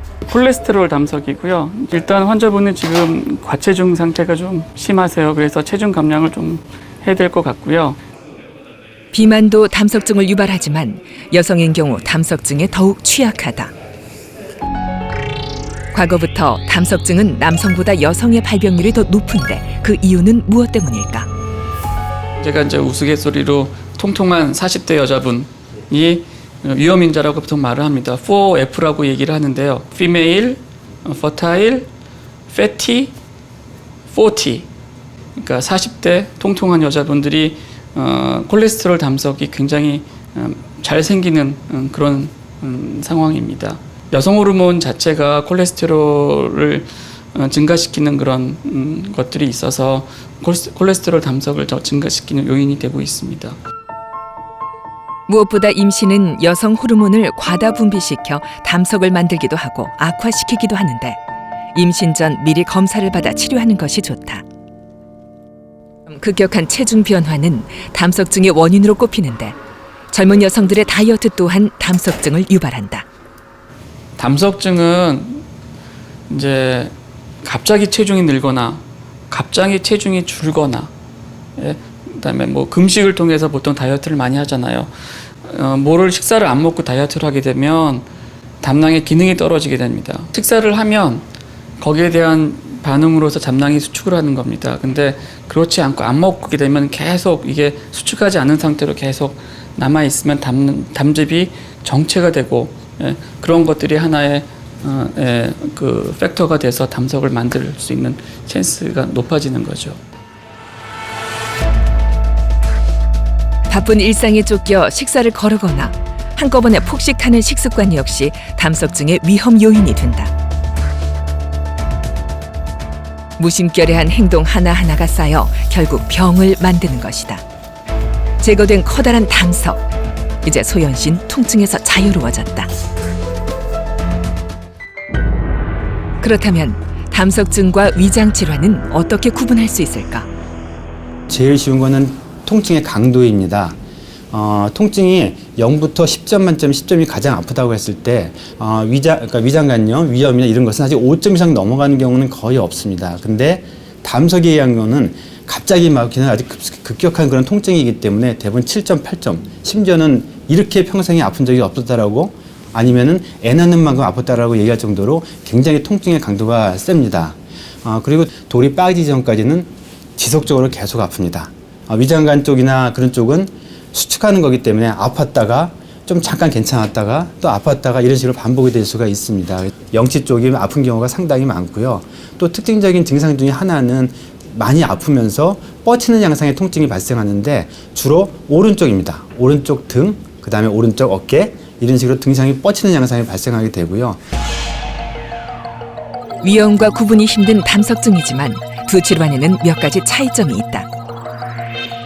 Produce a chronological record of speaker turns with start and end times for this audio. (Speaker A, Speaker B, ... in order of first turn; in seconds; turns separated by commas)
Speaker A: 0.3-8.0, Speaker B: 9.1-13.7, Speaker B: 15.9-21.3, Speaker A: 22.4-31.9, Speaker A: 32.5-33.1, Speaker A: 34.1-34.7, Speaker A: 35.4-53.6, Speaker B: 55.3-61.2, Speaker B: 61.7-64.4, Speaker B: 66.1-69.5, Speaker B: 70.1-73.1, Speaker A: 74.2-75.4, Speaker A: 76.3-80.9, Speaker A: 81.6-84.9, Speaker A: 85.4-88.1, Speaker A: 88.6-91.2, Speaker A: 91.8-110.0, Speaker B: 113.7-120.3, Speaker B: 123.4-127.4, Speaker B: 128.4-129.8, Speaker B: 130.4-132.7, Speaker B: 136.2-140.3, Speaker C: 141.3-143.8, Speaker C: 144.3-194.2, Speaker B: 196.4-200.9